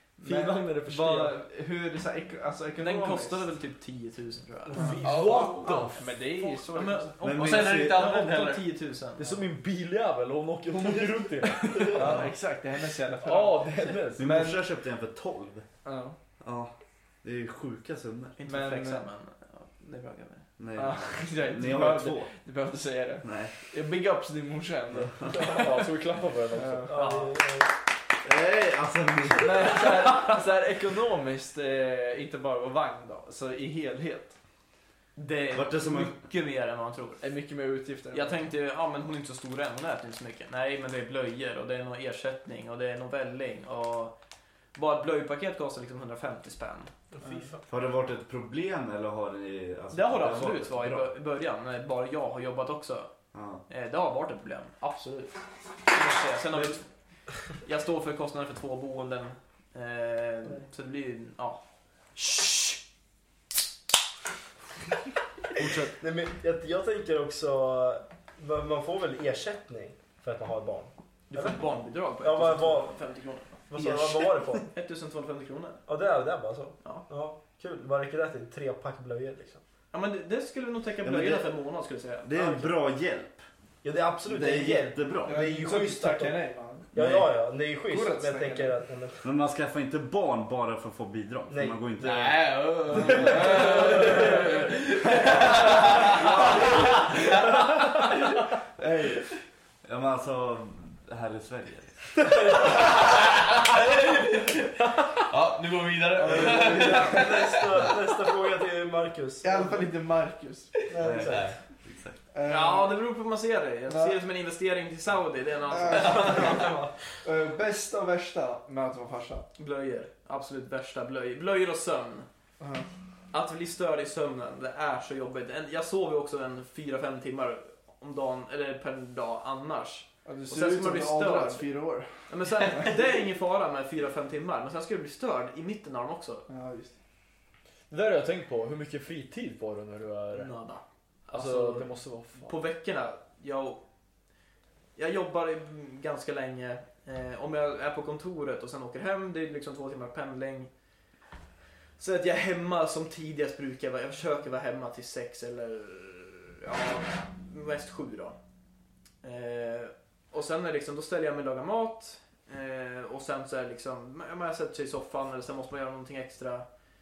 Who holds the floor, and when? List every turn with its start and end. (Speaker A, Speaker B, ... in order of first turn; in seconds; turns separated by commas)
Speaker A: 0.2-3.5, Speaker B: 0.2-1.4, Speaker C: 2.8-4.9, Speaker D: 4.7-5.7, Speaker A: 4.8-5.0, Speaker B: 4.9-6.1, Speaker E: 5.0-5.9, Speaker A: 5.6-7.2, Speaker C: 6.5-9.4, Speaker F: 7.2-8.1, Speaker E: 7.3-8.7, Speaker B: 9.2-12.3, Speaker A: 10.9-14.6, Speaker D: 11.8-12.1, Speaker B: 13.2-14.3, Speaker F: 14.2-15.7, Speaker A: 15.8-16.2, Speaker F: 16.4-18.4, Speaker C: 18.4-20.5, Speaker A: 18.4-19.1, Speaker F: 20.6-22.3, Speaker A: 20.8-25.9, Speaker F: 23.2-23.6, Speaker F: 24.9-25.6, Speaker B: 25.4-27.0, Speaker A: 26.5-27.0, Speaker D: 26.9-27.7, Speaker C: 26.9-27.3, Speaker F: 28.2-29.8, Speaker A: 29.4-34.4, Speaker C: 35.2-37.2, Speaker F: 35.5-36.2, Speaker A: 37.2-38.4, Speaker C: 38.1-44.1, Speaker C: 44.8-46.9, Speaker D: 47.1-47.6, Speaker A: 47.2-47.5, Speaker F: 47.7-51.1, Speaker C: 49.9-53.1, Speaker F: 53.3-53.6, Speaker C: 53.7-56.9, Speaker C: 57.5-61.6, Speaker C: 62.2-62.8, Speaker B: 65.6-65.9, Speaker D: 65.7-73.0, Speaker C: 71.3-75.8, Speaker D: 73.7-74.7, Speaker D: 75.9-79.6, Speaker C: 79.9-82.8, Speaker F: 81.0-81.5, Speaker F: 82.2-83.5, Speaker D: 83.8-86.4, Speaker F: 84.3-85.4, Speaker A: 84.5-84.7, Speaker A: 85.2-86.9, Speaker D: 86.9-89.2, Speaker F: 87.0-87.3, Speaker A: 87.9-88.8, Speaker F: 89.2-93.6, Speaker D: 91.5-91.8, Speaker E: 92.0-96.9, Speaker A: 93.0-94.3, Speaker F: 98.8-99.3, Speaker F: 99.8-102.4, Speaker E: 103.3-104.6, Speaker E: 105.2-107.9, Speaker A: 106.2-107.3, Speaker D: 106.2-109.9, Speaker A: 109.4-110.8, Speaker D: 110.9-111.6, Speaker F: 111.0-112.2, Speaker E: 111.2-111.6, Speaker A: 112.3-113.0, Speaker C: 112.5-116.7, Speaker A: 113.9-114.2, Speaker A: 115.7-119.5, Speaker D: 116.0-117.0, Speaker C: 119.6-122.3, Speaker A: 122.6-122.9, Speaker C: 123.3-131.7, Speaker A: 130.2-133.1, Speaker C: 132.2-136.5, Speaker A: 136.5-136.9, Speaker B: 137.9-140.6, Speaker C: 140.3-143.8, Speaker B: 141.3-142.6, Speaker C: 145.0-150.7, Speaker C: 152.0-158.4, Speaker C: 159.2-166.7